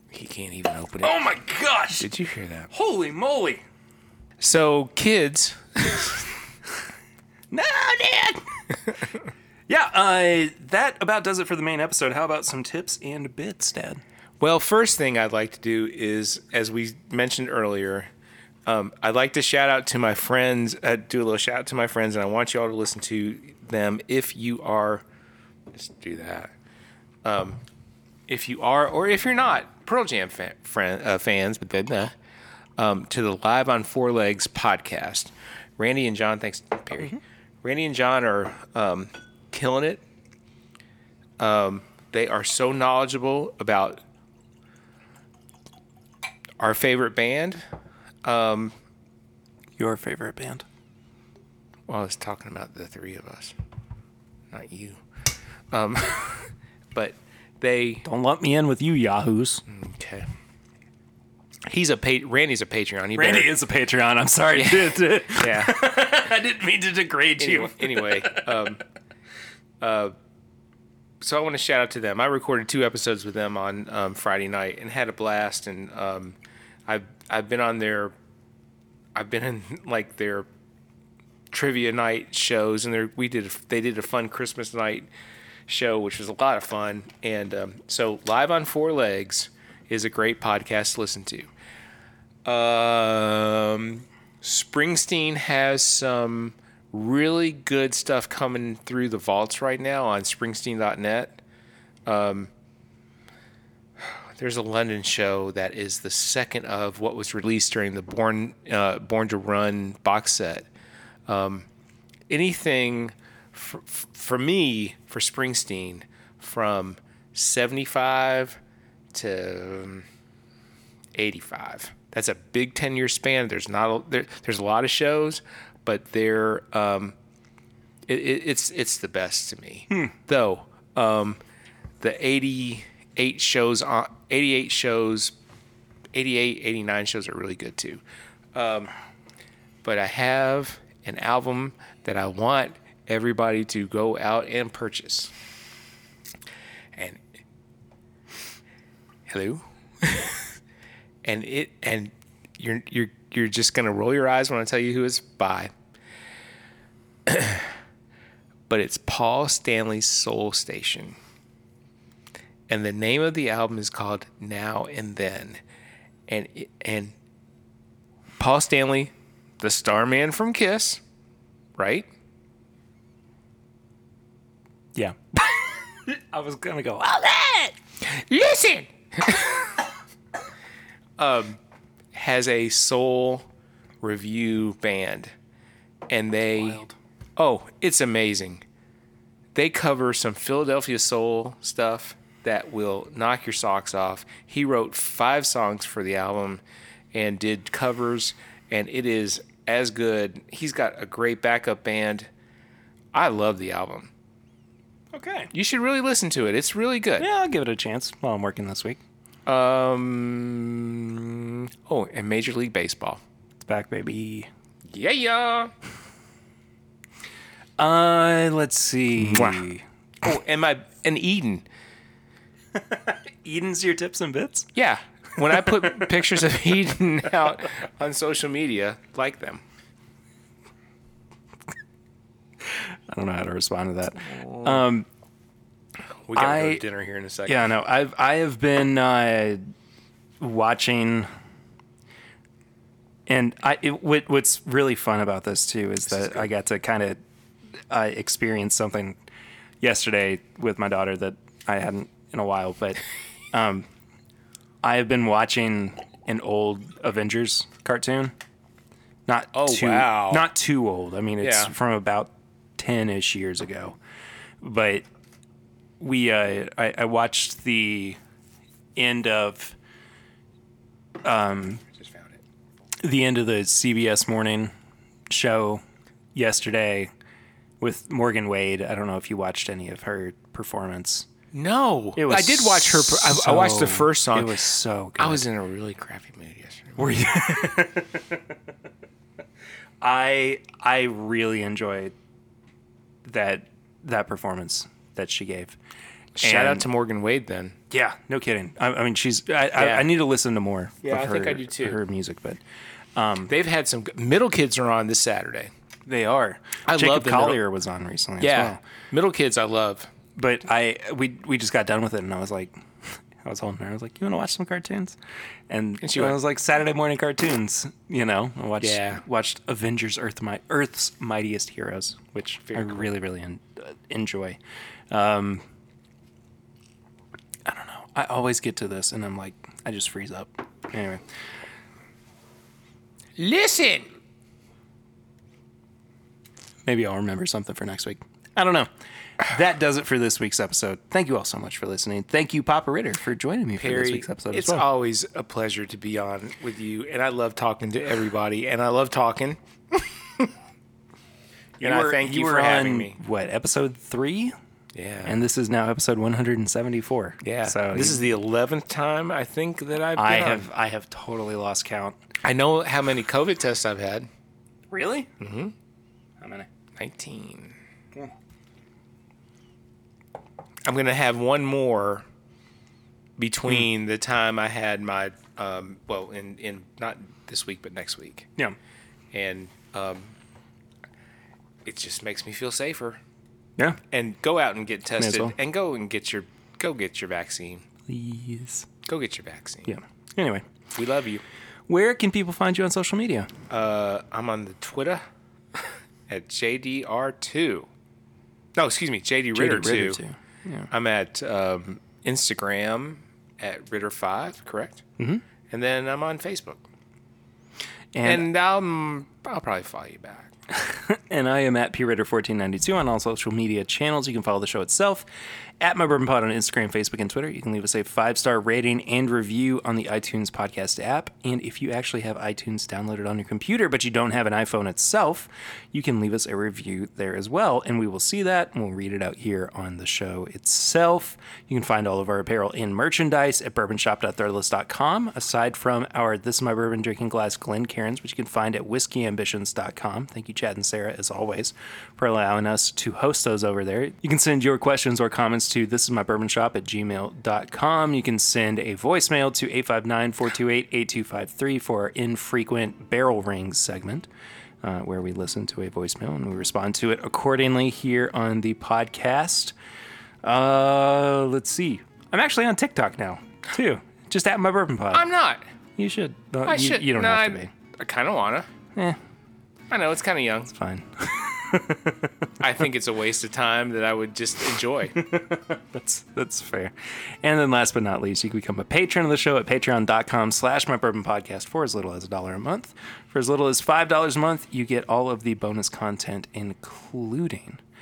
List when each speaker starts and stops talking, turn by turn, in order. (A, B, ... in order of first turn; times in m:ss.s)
0:00.1-0:01.2 A
0:01.0-0:02.1 B
0:02.0-0:02.7 A
0:02.7-0:03.6 B
0:04.4-0:06.2 A
0:07.5-0:09.0 B
0:09.7-0:14.0 B
0:14.4-0:18.1 A
0:18.6-0:25.0 A
0:25.7-0:26.5 A
0:27.2-0:27.6 A
0:28.3-0:32.1 A
0:32.8-0:40.0 A
0:41.4-0:44.0 A
0:46.6-0:47.6 A
0:48.2-0:48.7 A
0:49.8-0:50.6 B
0:51.9-0:53.5 A
0:54.5-0:55.0 A
0:55.7-0:58.0 A
0:58.0-0:59.6 B
0:59.7-1:00.3 A
1:01.7-1:03.5 A
1:03.1-1:08.7 B
1:04.5-1:05.8 A
1:07.4-1:08.8 A
1:09.8-1:10.1 A
1:11.2-1:18.1 A
1:19.1-1:20.5 A
1:21.5-1:25.1 A
1:25.7-1:31.5 A
1:32.4-1:41.4 A
1:42.1-1:42.5 A
1:44.4-1:50.7 A
1:51.3-1:51.7 A
1:52.3-1:58.6 A
1:59.1-2:00.0 A
2:01.1-2:07.2 A
2:08.1-2:11.4 A
2:12.0-2:15.3 A
2:16.1-2:18.0 A
2:18.5-2:18.9 A
2:19.8-2:25.3 A
2:26.9-2:27.2 A
2:29.3-2:30.5 A
2:31.2-2:35.7 A
2:37.2-2:37.7 A
2:38.7-2:41.2 A
2:42.7-2:45.6 A
2:46.3-2:47.1 A
2:48.4-2:51.0 A
2:51.8-2:52.1 A
2:54.9-2:57.7 B
2:58.0-2:59.7 A
3:01.2-3:01.6 A
3:02.1-3:03.5 A
3:04.0-3:05.3 A
3:06.1-3:06.8 A
3:06.6-3:06.9 B
3:07.4-3:08.6 A
3:09.5-3:16.6 A
3:17.1-3:22.3 A
3:23.1-3:24.1 A
3:25.1-3:25.5 B
3:25.5-3:27.3 A
3:27.2-3:29.0 B
3:29.4-3:33.2 A
3:33.6-3:34.5 B
3:34.9-3:35.7 A
3:37.8-3:39.8 B
3:39.2-3:39.6 A
3:40.2-3:41.6 A
3:42.7-3:44.7 B
3:44.8-3:49.6 A
3:45.4-3:46.3 B
3:52.6-3:55.1 B
3:54.4-3:54.7 A
3:56.2-3:57.6 A
3:56.3-3:56.8 B
3:57.5-3:59.6 B
4:00.4-4:01.3 B
4:03.3-4:07.2 B
4:06.1-4:06.5 A
4:07.9-4:09.2 B
4:09.8-4:13.9 B
4:14.8-4:18.3 B
4:19.3-4:24.0 B
4:19.5-4:20.5 A
4:21.4-4:21.7 A
4:24.6-4:25.0 B
4:26.0-4:28.2 B
4:29.0-4:29.8 B
4:31.2-4:31.8 B
4:32.0-4:32.4 A
4:33.0-4:34.7 B
4:35.3-4:35.8 B
4:36.3-4:37.1 B
4:37.8-4:41.3 B
4:41.5-4:44.6 A
4:42.2-4:45.4 B
4:45.2-4:47.2 A
4:47.0-4:48.4 B
4:50.0-4:52.1 B
4:53.2-4:55.8 B
4:56.4-4:56.8 B
4:56.4-4:57.8 A
4:57.9-5:02.6 B
4:59.7-5:00.1 A
5:01.0-5:02.0 A
5:03.2-5:03.5 B
5:03.5-5:05.7 A
5:06.1-5:08.8 B
5:06.8-5:07.6 A
5:08.4-5:10.1 A
5:10.4-5:15.2 B
5:15.7-5:24.6 B
5:16.0-5:16.4 A
5:18.8-5:19.2 A
5:22.7-5:23.0 A
5:25.1-5:25.6 B
5:27.6-5:31.2 B
5:33.4-5:34.1 A
5:36.8-5:44.9 B
5:43.8-5:50.5 A
5:51.8-5:54.5 B
5:51.8-5:53.2 A
5:54.9-5:55.4 A
5:55.2-5:58.3 B
5:57.4-6:00.6 A
6:00.1-6:02.2 B
6:02.4-6:04.3 A
6:04.9-6:05.3 B
6:05.4-6:05.7 A
6:06.4-6:06.7 B
6:07.0-6:07.8 A
6:10.8-6:12.3 A
6:13.4-6:18.5 A
6:19.3-6:20.3 A
6:21.8-6:23.2 A
6:24.1-6:27.8 A
6:25.2-6:25.5 B
6:28.1-6:28.9 B
6:29.0-6:30.0 A
6:29.9-6:30.6 B
6:30.9-6:31.4 A
6:31.9-6:33.5 B
6:33.7-6:35.2 A
6:36.3-6:37.9 A
6:38.8-6:40.2 A
6:39.5-6:40.9 B
6:40.9-6:45.0 A
6:45.2-6:45.4 B
6:45.7-6:46.8 A
6:48.1-6:48.5 B
6:48.2-6:50.5 A
6:50.7-6:55.2 B
6:55.8-7:34.3 B
7:34.8-7:39.7 B
7:40.4-7:45.2 B
7:45.1-7:45.7 A
7:46.0-7:47.7 B
7:46.6-7:48.7 A
7:49.9-7:50.7 A
7:50.7-7:52.4 B
7:52.6-7:55.2 A
7:55.1-8:07.8 B